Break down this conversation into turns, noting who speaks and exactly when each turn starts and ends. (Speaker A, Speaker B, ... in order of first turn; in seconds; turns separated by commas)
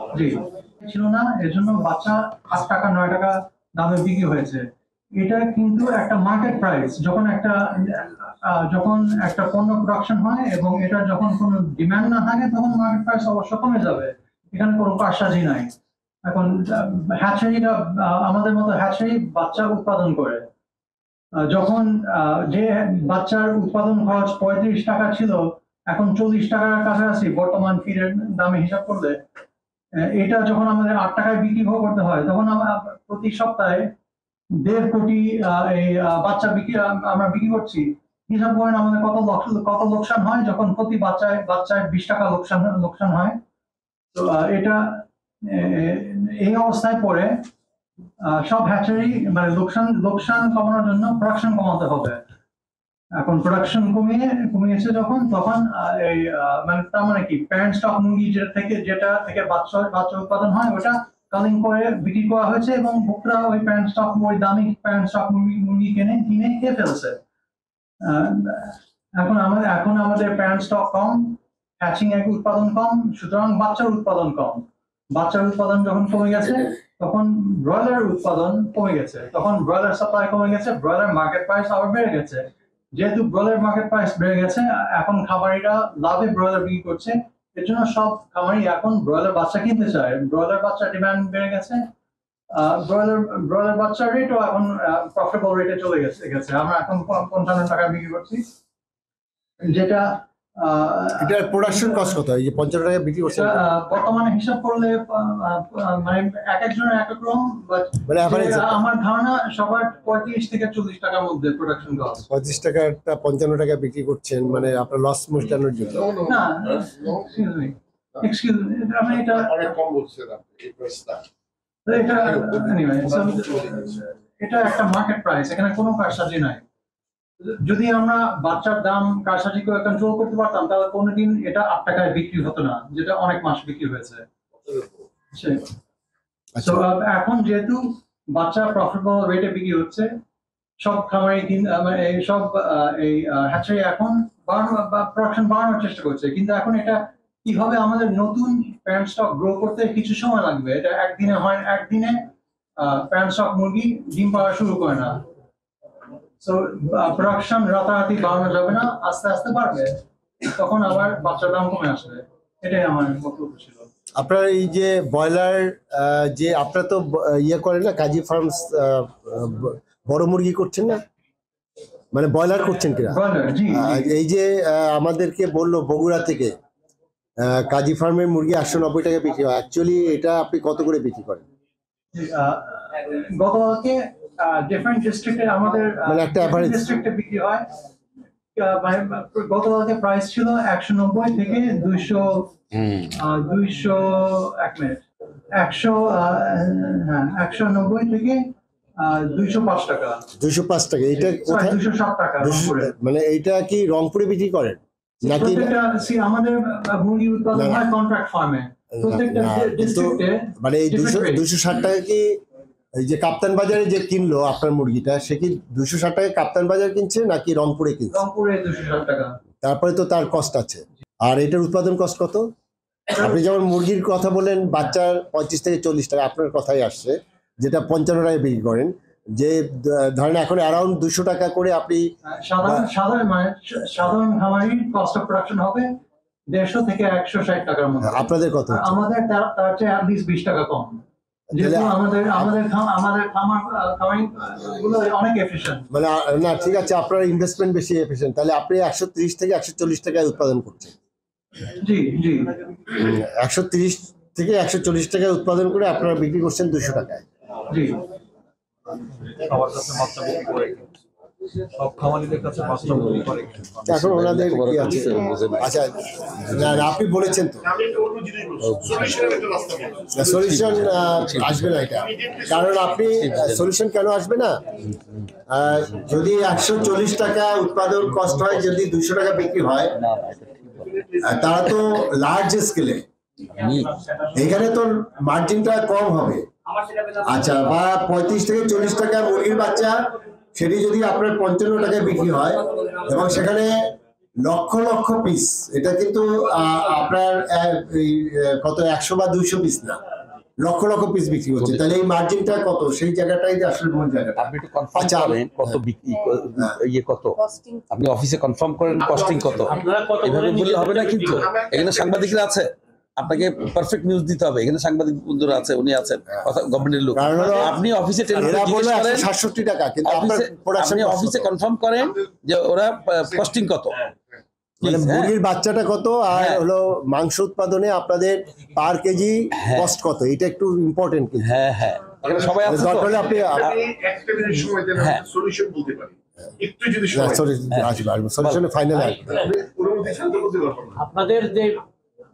Speaker A: 0.1-4.6, Speaker A: 5.2-15.7, Speaker A: 16.2-20.4, Speaker A: 21.5-29.2, Speaker A: 30.1-33.9, Speaker A: 34.6-43.4, Speaker A: 44.1-47.3, Speaker A: 48.2-52.2, Speaker A: 53.2-67.2, Speaker A: 68.0-91.8, Speaker A: 92.5-98.4, Speaker A: 99.6-102.2, Speaker B: 101.2-103.6, Speaker A: 103.3-112.2, Speaker B: 108.1-108.8, Speaker B: 112.3-116.1, Speaker C: 116.0-117.1, Speaker A: 116.2-119.7, Speaker C: 119.4-121.2, Speaker A: 121.8-126.6, Speaker C: 122.4-122.8, Speaker C: 123.3-123.7, Speaker A: 127.4-134.2, Speaker A: 135.3-135.7, Speaker A: 136.6-140.1, Speaker A: 140.8-155.2, Speaker A: 156.4-163.9, Speaker B: 164.2-171.0, Speaker B: 172.1-173.2, Speaker A: 173.1-174.1, Speaker B: 173.7-176.5, Speaker B: 177.4-181.4, Speaker A: 182.1-187.7, Speaker B: 186.1-186.9, Speaker A: 188.6-192.5, Speaker D: 192.8-193.1, Speaker A: 193.1-195.0, Speaker A: 195.6-198.4, Speaker A: 199.0-200.2, Speaker B: 200.4-201.8, Speaker A: 201.2-202.9, Speaker B: 202.4-205.7, Speaker A: 205.2-211.4, Speaker B: 207.5-207.8, Speaker B: 209.0-212.4, Speaker B: 213.0-218.2, Speaker A: 218.1-219.4, Speaker B: 219.6-222.5, Speaker A: 223.1-223.4, Speaker B: 223.2-232.1, Speaker A: 232.3-235.9, Speaker A: 236.5-241.0, Speaker B: 238.0-238.9, Speaker B: 241.5-242.5, Speaker A: 241.5-245.9, Speaker B: 245.9-250.9, Speaker A: 251.7-252.5, Speaker B: 252.9-257.2, Speaker A: 257.7-258.0, Speaker A: 259.3-260.8, Speaker A: 261.8-263.9, Speaker B: 263.9-267.6, Speaker D: 263.9-265.7, Speaker D: 266.4-266.9, Speaker C: 267.6-270.6, Speaker D: 268.6-269.2, Speaker B: 270.1-274.7, Speaker D: 270.4-271.7, Speaker C: 271.9-273.0, Speaker D: 273.1-273.7, Speaker B: 275.5-279.9, Speaker D: 280.0-280.7, Speaker C: 280.8-281.6, Speaker B: 281.2-283.0, Speaker D: 283.5-283.9, Speaker B: 284.3-286.4, Speaker B: 287.2-290.0, Speaker B: 290.5-293.8, Speaker B: 294.4-300.0, Speaker B: 300.6-305.4, Speaker D: 301.6-301.8, Speaker D: 304.4-319.3, Speaker C: 308.9-309.7, Speaker E: 309.7-311.5, Speaker C: 311.2-312.6, Speaker B: 317.1-317.8, Speaker B: 318.3-321.5, Speaker D: 320.0-324.0, Speaker C: 322.0-322.3, Speaker B: 324.8-331.5, Speaker D: 324.8-325.3, Speaker D: 326.3-326.6, Speaker D: 329.6-329.9, Speaker D: 331.4-333.8, Speaker C: 332.3-337.5, Speaker B: 332.6-333.7, Speaker D: 335.0-335.2, Speaker B: 337.1-339.5, Speaker D: 337.7-338.7, Speaker E: 338.9-339.4, Speaker C: 339.4-341.0, Speaker E: 341.0-341.8